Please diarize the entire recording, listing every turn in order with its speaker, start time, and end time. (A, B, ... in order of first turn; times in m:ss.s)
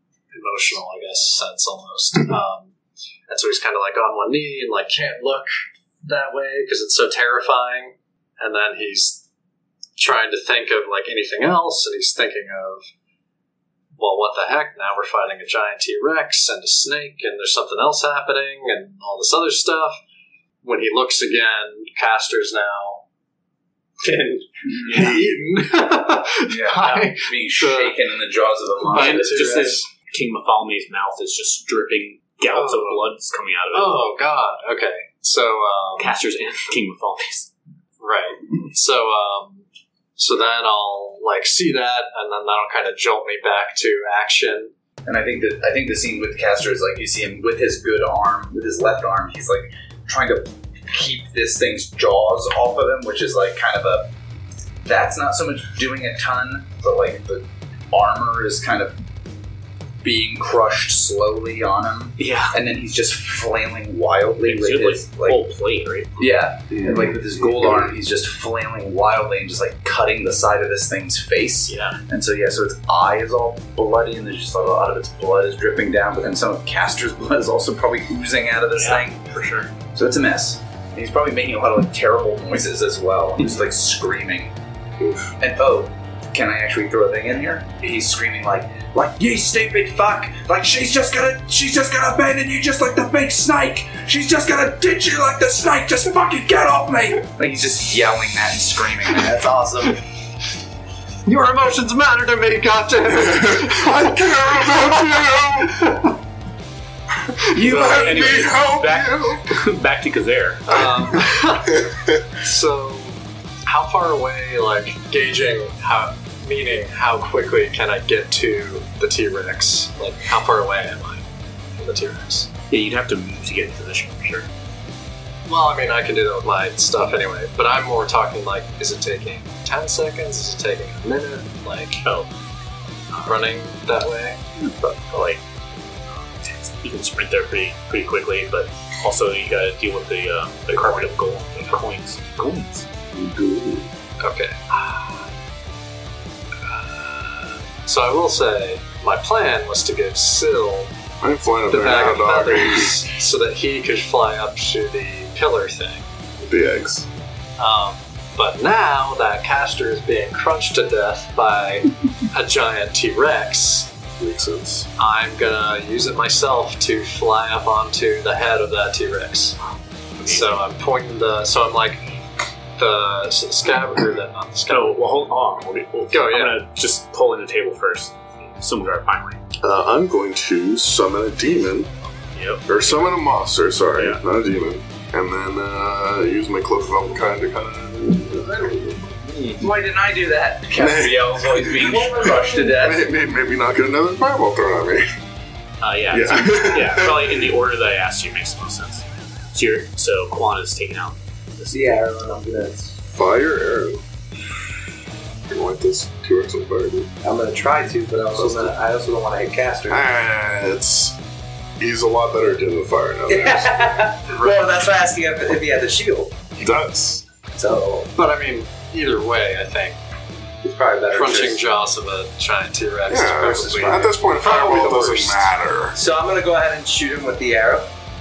0:00.3-0:02.7 A
0:03.3-0:05.5 A
0:06.0-0:09.2 A
0:10.0-0:12.9 A
0:14.0-0:20.0 A
0:20.6-0:23.0 A
0:24.0-0:28.0 A
0:24.6-0:25.2 B
0:24.9-0:25.6 C
0:26.5-0:29.8 B
0:26.8-0:27.1 D
0:28.9-0:29.8 A
0:28.9-0:34.1 D
0:32.5-0:33.1 A
0:33.7-0:36.2 A
0:36.0-0:37.5 D
0:38.0-0:39.6 A
0:40.2-0:44.7 A
0:45.0-0:54.1 B
0:54.8-0:59.0 B
1:00.0-1:05.4 B
1:02.2-1:02.6 D
1:04.4-1:06.2 D
1:06.2-1:19.2 B
1:06.7-1:07.9 C
1:11.7-1:12.0 D
1:18.7-1:19.7 D
1:19.9-1:24.5 B
1:25.0-1:25.3 C
1:25.4-1:39.9 B
1:39.3-1:39.9 E
1:41.2-1:46.0 A
1:43.2-1:45.9 C
1:47.3-1:49.5 C
1:47.6-1:48.4 B
1:47.6-1:50.9 D
1:50.7-2:02.5 A
1:50.8-1:51.2 C
2:02.7-2:04.5 D
2:05.4-2:12.0 A
2:12.0-2:12.3 D
2:13.2-2:14.4 A
2:14.9-2:15.4 D
2:16.1-2:22.9 D
2:20.7-2:21.1 A
2:23.1-2:23.9 C
2:24.2-2:25.3 A
2:26.6-2:30.9 A
2:31.2-2:33.0 C
2:31.7-2:36.0 A
2:36.4-2:37.1 C
2:37.6-2:43.9 A
2:44.2-2:44.9 C
2:45.0-2:49.6 A
2:50.2-2:50.6 D
2:50.2-2:52.0 A
2:52.8-2:55.0 A
2:54.7-2:59.4 D
2:56.1-2:56.6 A
2:59.6-3:01.9 C
3:02.3-3:02.7 D
3:02.6-3:09.2 C
3:04.0-3:04.2 D
3:09.6-3:13.0 B
3:10.7-3:15.1 C
3:11.8-3:12.8 E
3:15.8-3:22.0 D
3:16.1-3:17.4 C
3:21.7-3:23.0 E
3:23.1-3:24.0 C
3:25.5-3:27.1 C
3:27.2-3:30.0 E
3:28.3-3:28.7 C
3:29.9-3:31.2 C
3:31.8-3:34.0 C
3:33.3-3:36.4 E
3:34.3-3:34.8 A
3:36.5-3:37.3 C
3:37.4-3:38.1 E
3:38.2-3:40.0 A
3:40.6-3:41.6 E
3:41.1-3:45.6 A
3:43.1-3:46.0 C
3:45.9-3:47.9 E